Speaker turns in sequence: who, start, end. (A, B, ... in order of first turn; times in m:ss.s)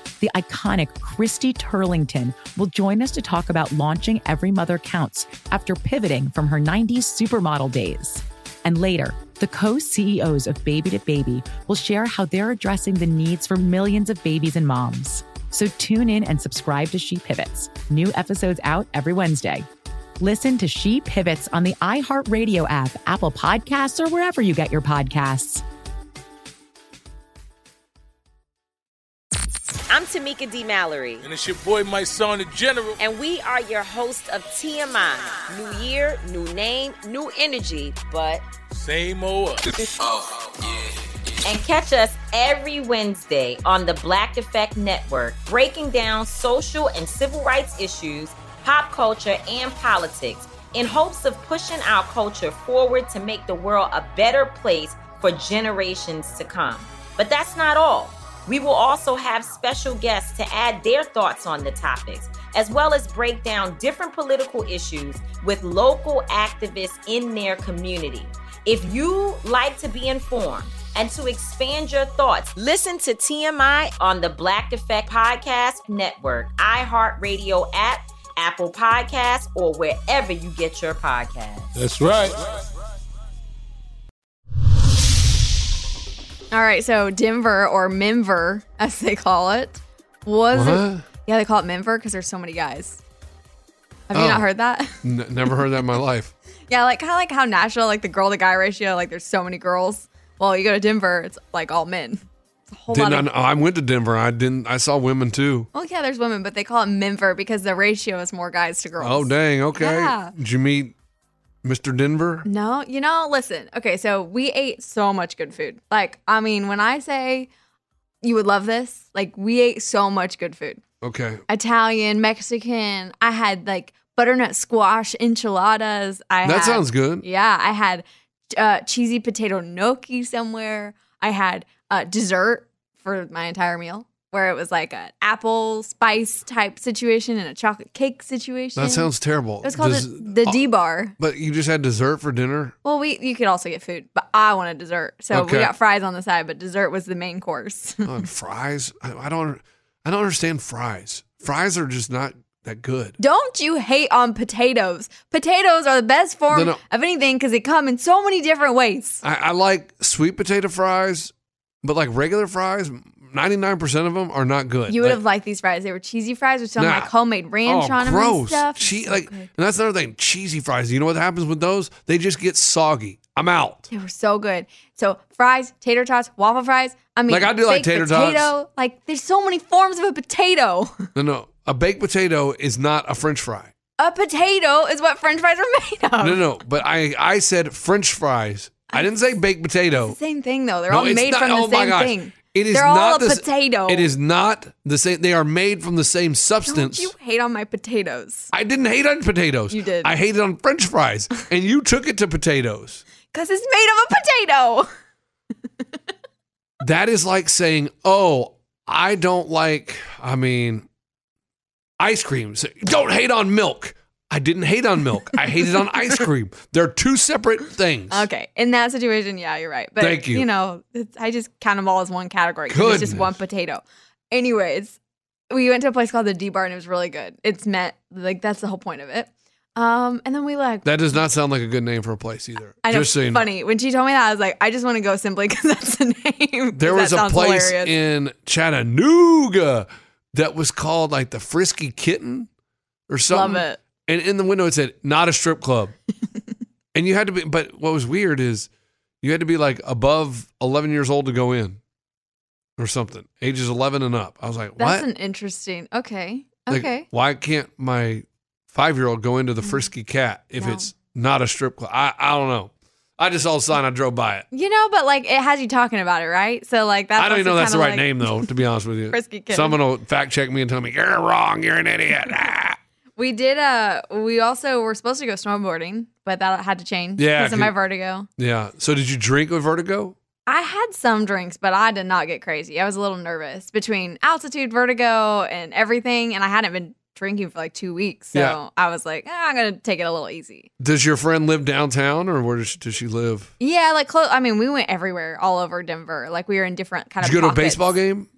0:00.2-0:19.7 A
0:20.2-0:25.6 A
0:29.9-0:31.2 B
0:31.2-0:33.0 C
0:33.0-0:38.4 B
0:38.7-0:39.8 C
0:41.4-1:21.7 B
1:21.7-1:22.6 C
1:26.5-1:33.0 D
1:30.5-1:31.0 E
1:34.1-1:35.6 D
1:34.1-1:34.5 E
1:35.0-1:36.3 E
1:36.7-1:43.3 D
1:42.9-1:45.7 E
1:45.7-1:50.3 D
1:49.0-1:50.9 E
1:51.6-1:52.4 E
1:52.4-1:57.5 D
1:58.2-2:00.8 D
2:01.0-2:01.4 E
2:01.5-2:19.1 D
2:06.4-2:07.2 E
2:18.8-2:20.6 E
2:19.6-2:21.1 D
2:21.2-2:22.7 E
2:22.8-2:28.1 D
2:25.3-2:25.7 E
2:28.0-2:33.2 E
2:33.2-2:39.2 D
2:36.5-2:36.8 E
2:39.2-2:41.3 E
2:41.8-2:45.2 E
2:44.9-2:49.5 D
2:46.8-2:47.1 E
2:47.6-2:53.9 E
2:53.9-3:01.1 D
2:57.3-2:58.5 E
3:01.1-3:03.7 E
3:04.0-3:06.4 D
3:06.2-3:10.2 E
3:10.1-3:14.1 D
3:10.9-3:17.1 E
3:16.7-3:18.5 D
3:18.5-3:23.0 E
3:19.7-3:20.1 D
3:23.3-3:24.9 D
3:26.8-3:30.8 E
3:32.0-3:38.3 E
3:38.1-3:45.0 D
3:40.0-3:40.4 E
3:42.7-3:43.4 E
3:45.5-3:50.9 D
3:50.8-3:53.5 E
3:52.8-3:57.9 D
3:56.7-4:02.5 E
4:03.1-4:05.9 E
4:03.3-4:03.8 D
4:06.9-4:08.7 E
4:09.2-4:11.8 E
4:12.8-4:15.0 E
4:14.8-4:17.1 D
4:16.7-4:24.4 E
4:19.6-4:19.9 D
4:20.6-4:20.9 D
4:24.5-4:28.5 D
4:27.2-4:32.8 E
4:29.1-4:29.8 D
4:33.2-4:38.3 D
4:37.2-4:37.7 E
4:38.4-4:40.2 E
4:40.4-4:50.7 D
4:50.8-4:53.5 E
4:53.6-4:57.9 D
4:57.2-4:58.3 E